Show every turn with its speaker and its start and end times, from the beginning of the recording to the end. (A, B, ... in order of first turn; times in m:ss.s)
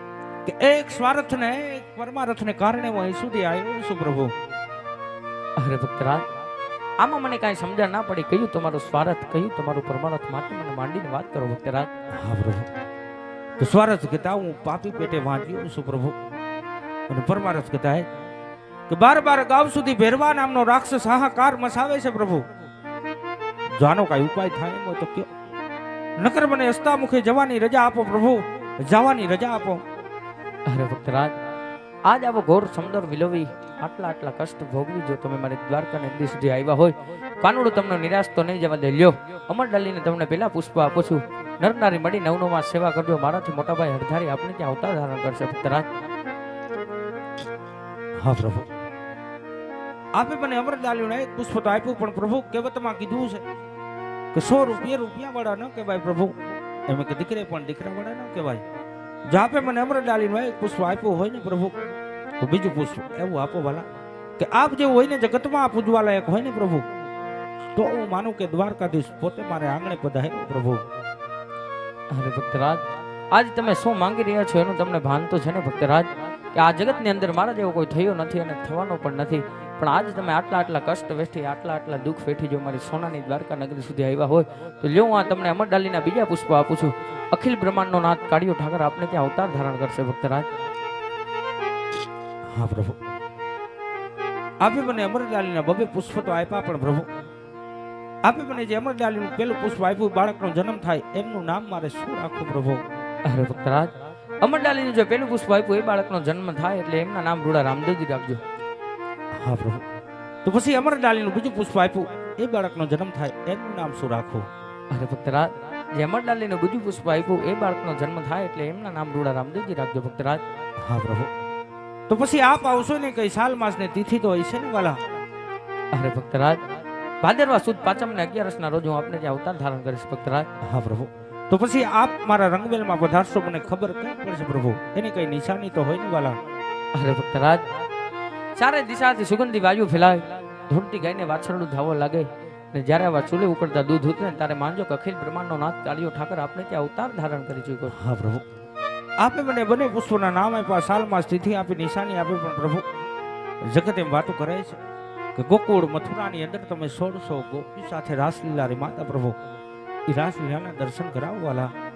0:00.4-0:04.3 A
0:05.6-0:06.2 B
0:07.0-0:11.9 B
0:12.1-0:12.7 A
0:13.6-0:16.2 A
0:17.1-0:18.1 A
0:18.9-0:22.4 A
0:23.8-0:25.3 A
0:26.2-0:29.8 A
0:30.7-0:31.4 B
0:32.1-0:45.9 B
0:48.2-0:48.7 A
0:50.2-0:53.4 A
0:54.3-0:56.4 A
0:56.9-0:58.6 A
0:59.3-1:01.8 A
1:02.4-1:03.8 A
1:04.4-1:06.8 A
1:07.8-1:10.8 A
1:12.1-1:30.5 B
1:32.5-1:33.0 A
1:34.6-1:37.1 A
1:38.2-1:42.8 A
1:43.2-1:43.9 B
1:44.4-1:48.4 B
1:49.4-1:49.8 A
1:50.4-1:54.4 A
1:54.9-2:00.4 B
2:00.8-2:01.3 A
2:02.1-2:05.0 A
2:05.9-2:06.6 B
2:07.2-2:10.5 B
2:10.6-2:16.4 A
2:17.0-2:17.6 B
2:18.6-2:28.0 B
2:27.9-2:28.4 A
2:29.2-2:32.8 A
2:33.6-2:34.8 A
2:35.4-2:39.4 A
2:40.1-2:41.7 A